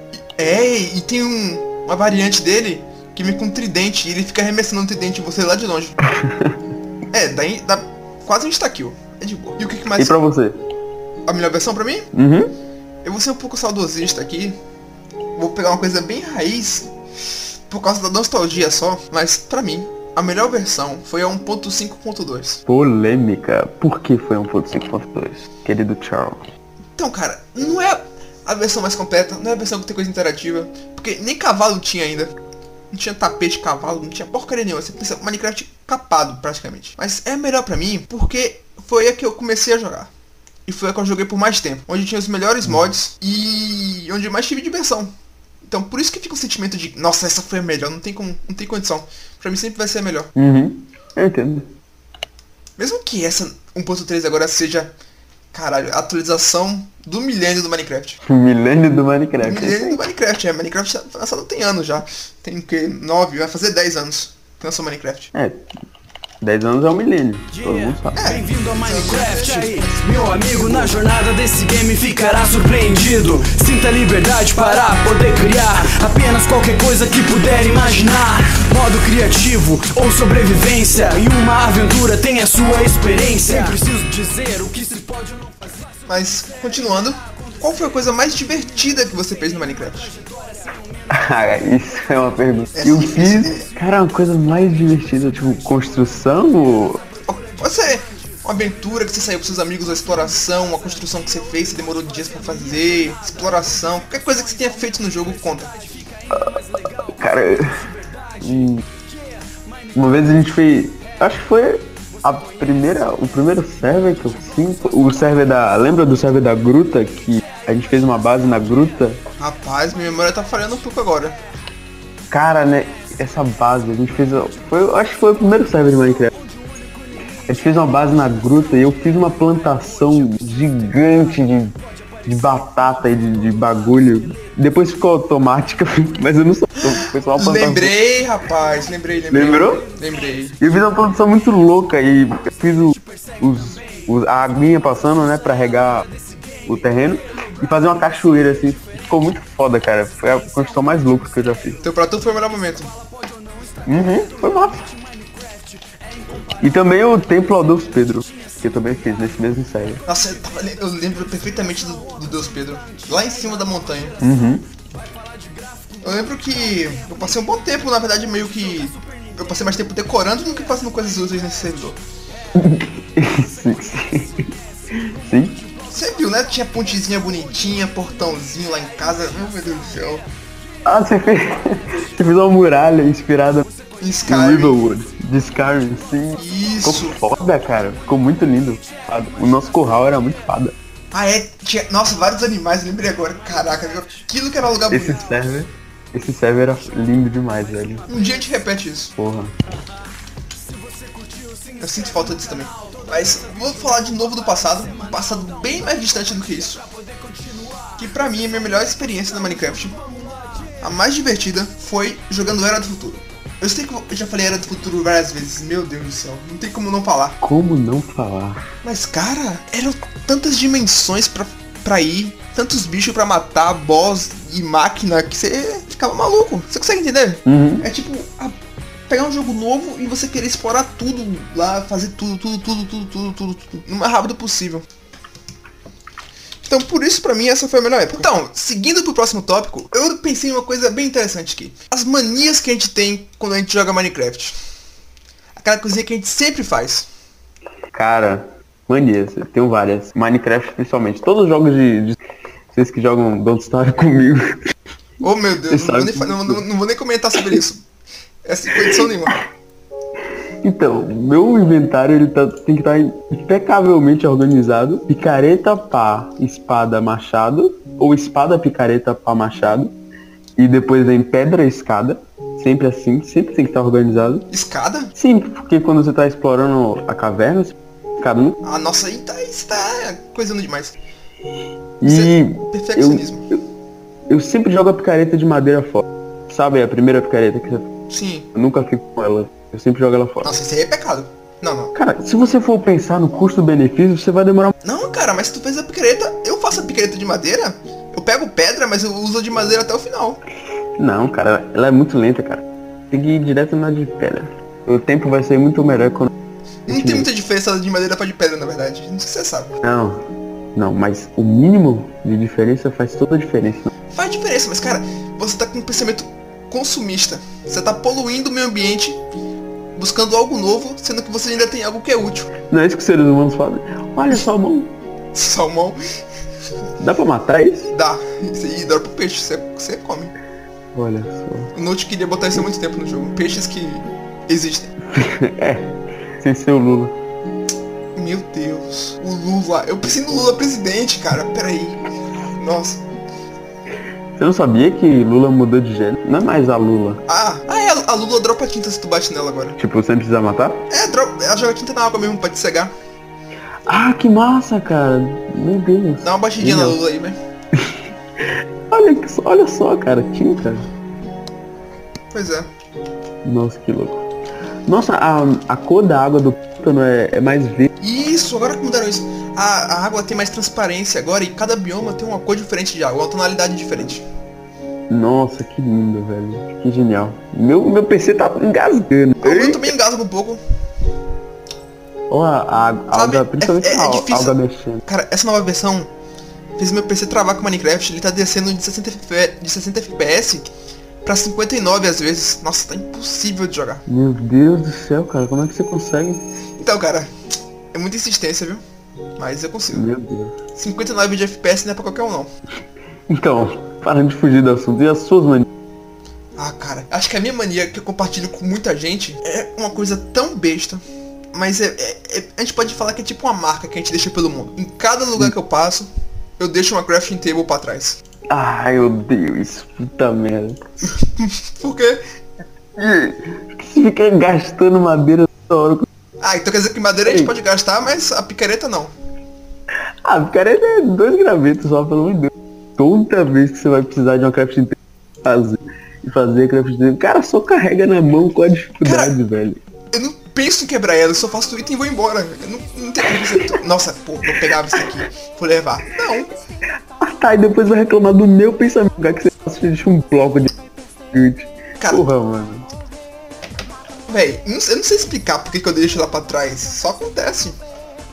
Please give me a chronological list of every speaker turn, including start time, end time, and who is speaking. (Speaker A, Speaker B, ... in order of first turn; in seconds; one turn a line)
Speaker A: 0.4-5.9
Speaker B: 6.0-6.6
Speaker A: 7.1-10.2
Speaker B: 10.0-10.6
Speaker A: 11.2-12.1
Speaker B: 12.1-12.5
Speaker A: 13.0-14.6
Speaker A: 15.4-16.9
Speaker A: 17.7-22.6
Speaker B: 22.6-26.4
Speaker A: 27.0-32.3
Speaker A: 32.9-40.1
Speaker A: 40.6-45.1
Speaker A: 45.6-50.3
Speaker B: 50.4-51.7
Speaker A: 52.8-54.9
Speaker A: 55.5-58.2
Speaker B: 58.2-60.0
Speaker A: 59.4-65.3
Speaker B: 65.3-65.7
Speaker B: 66.4-68.2
Speaker C: 67.5-85.7
Speaker A: 68.1-70.6
Speaker A: 86.1-90.2
Speaker B: 91.1-97.0
Speaker A: 92.8-93.7
Speaker A: 97.3-105.7
Speaker B: 106.3-108.8
Speaker B: 109.9-119.2
Speaker A: 119.4-121.4
Speaker B: 122.3-126.3
Speaker B: 127.5-138.0
Speaker A: 137.3-140.6
Speaker B: 139.3-139.8
Speaker B: 140.6-146.1
Speaker B: 146.6-151.8
Speaker A: 151.8-152.9
Speaker B: 153.8-154.9
Speaker B: 156.6-160.0
Speaker A: 160.1-164.2
Speaker B: 164.2-164.7
Speaker A: 166.0-172.0
Speaker B: 172.5-175.6
Speaker A: 175.9-180.2
Speaker B: 180.8-183.7
Speaker A: 184.0-184.8
Speaker B: 184.2-190.8
Speaker A: 186.4-187.2
Speaker A: 191.1-195.2
Speaker B: 194.9-198.1
Speaker A: 198.1-199.1
Speaker B: 199.2-199.5
Speaker A: 201.8-206.8
Speaker A: 208.0-210.0
Speaker A: 210.8-217.4
Speaker B: 217.4-218.7
Speaker A: 218.8-228.6
Speaker B: 227.5-227.9
Speaker A: 229.1-234.8
Speaker A: 236.7-244.6
Speaker A: 245.6-247.1
Speaker B: 247.9-252.2
Speaker B: 252.7-254.6
Speaker A: 255.2-257.9
Speaker B: 255.7-256.6
Speaker A: 258.4-259.4
Speaker B: 260.6-269.9
Speaker B: 270.6-274.5
Speaker A: 274.5-275.1
Speaker B: 275.1-278.6
Speaker A: 278.6-281.0
Speaker B: 282.0-283.6
Speaker A: 282.0-283.4
Speaker B: 284.3-287.9
Speaker A: 288.1-288.5
Speaker B: 288.5-290.5
Speaker A: 290.4-291.9
Speaker B: 291.9-294.7
Speaker A: 294.8-300.4
Speaker B: 301.0-306.3
Speaker A: 306.9-309.7
Speaker B: 306.9-307.3
Speaker B: 309.8-313.9
Speaker A: 314.1-319.2
Speaker A: 320.0-322.5
Speaker B: 322.7-324.9
Speaker A: 325.3-326.0
Speaker B: 327.0-327.9
Speaker A: 327.9-330.3
Speaker B: 330.9-331.7
Speaker A: 331.7-334.9
Speaker B: 335.1-337.1
Speaker A: 338.1-343.0
Speaker B: 344.4-347.2
Speaker A: 347.3-349.8
Speaker B: 349.8-350.9
Speaker A: 350.9-352.9
Speaker B: 353.9-357.0
Speaker A: 356.2-357.4
Speaker B: 357.8-360.9
Speaker A: 362.3-362.7
Speaker B: 363.4-364.3
Speaker B: 364.9-367.9
Speaker A: 368.0-374.2
Speaker B: 375.1-379.9
Speaker A: 379.4-380.6
Speaker B: 382.3-385.0
Speaker A: 383.1-386.1
Speaker A: 386.8-390.7
Speaker A: 391.2-394.0
Speaker B: 394.1-396.4
Speaker A: 396.8-397.3
Speaker A: 397.9-398.8
Speaker A: 399.4-400.1
Speaker B: 399.9-400.5
Speaker A: 400.7-402.5
Speaker B: 403.3-405.7
Speaker A: 406.6-411.0
Speaker A: 411.5-418.2
Speaker B: 418.5-421.0
Speaker A: 421.4-422.2
Speaker B: 422.9-426.1
Speaker A: 426.4-429.1
Speaker B: 427.2-427.5
Speaker B: 430.2-439.8
Speaker A: 439.0-439.4
Speaker A: 440.1-446.5
Speaker B: 443.3-443.7
Speaker B: 447.2-450.7
Speaker B: 451.3-452.9
Speaker A: 452.0-452.2
Speaker A: 454.3-457.8